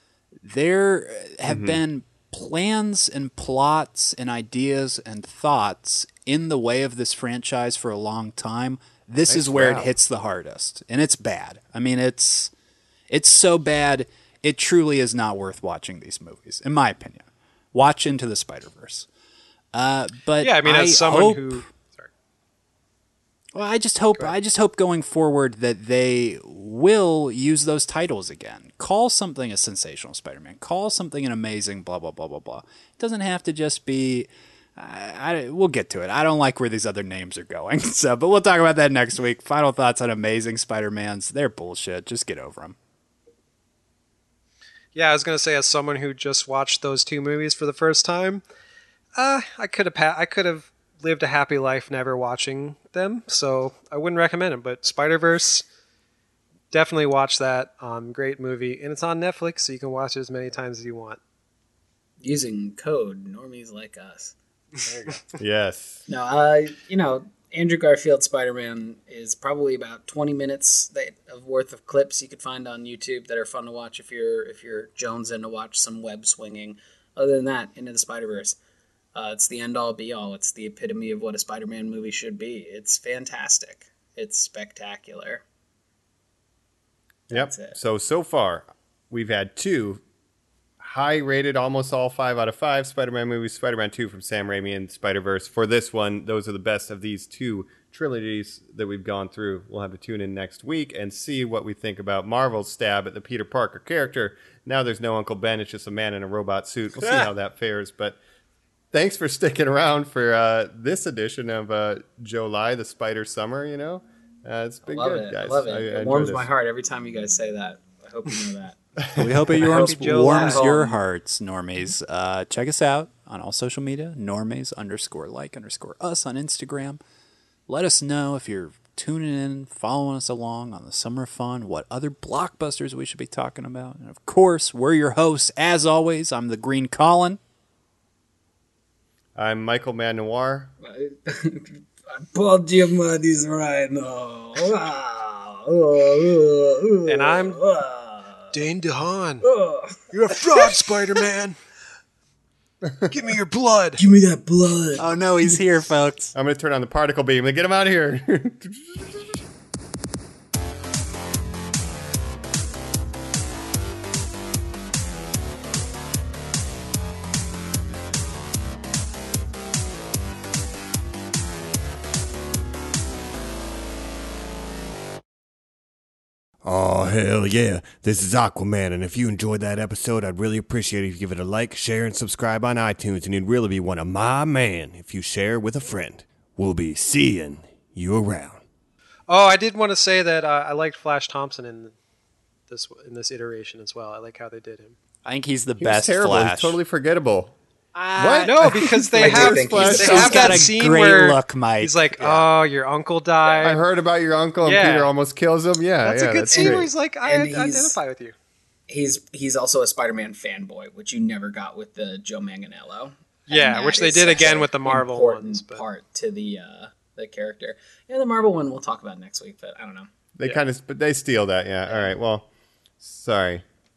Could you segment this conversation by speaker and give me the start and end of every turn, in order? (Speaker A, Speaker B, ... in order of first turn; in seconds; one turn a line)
Speaker A: 0.4-12.5
Speaker B: 1.5-1.8
Speaker B: 9.3-9.9
Speaker A: 13.1-19.1
Speaker A: 19.7-21.7
Speaker C: 20.4-22.1
Speaker A: 23.5-42.8
Speaker C: 45.0-48.4
Speaker C: 49.2-55.6
Speaker C: 56.7-61.2
Speaker D: 62.2-64.3
Speaker B: 65.4-66.0
Speaker D: 66.1-78.6
Speaker D: 79.2-85.4
Speaker D: 87.3-87.8
Speaker B: 87.3-90.0
Speaker B: 90.8-108.2
Speaker B: 108.9-116.5
Speaker D: 114.8-118.8
Speaker A: 119.2-127.0
Speaker D: 119.6-121.0
Speaker C: 119.6-120.7
Speaker A: 127.7-137.4
Speaker B: 139.4-140.7
Speaker D: 140.8-148.6
Speaker C: 147.1-147.6
Speaker C: 148.5-149.4
Speaker D: 149.4-150.7
Speaker C: 150.1-151.6
Speaker B: 152.8-153.1
Speaker C: 153.1-154.0
Speaker D: 154.0-155.6
Speaker A: 155.0-156.3
Speaker B: 156.3-159.4
Speaker E: 176.6-188.6
Speaker C: 189.3-191.9
Speaker C: 192.7-195.0
Speaker A: 195.2-196.8
Speaker B: 195.8-197.6
Speaker A: 197.9-202.5
Speaker B: 198.2-200.7
Speaker C: 198.5-203.8
Speaker D: 199.2-200.6
Speaker B: 203.6-206.9
Speaker C: 204.6-205.1
Speaker D: 206.1-208.0
Speaker C: 206.4-208.3
Speaker D: 208.9-220.1
Speaker C: 213.5-215.8
Speaker B: 220.4-222.5
Speaker D: 221.9-222.1
Speaker B: 223.0-223.7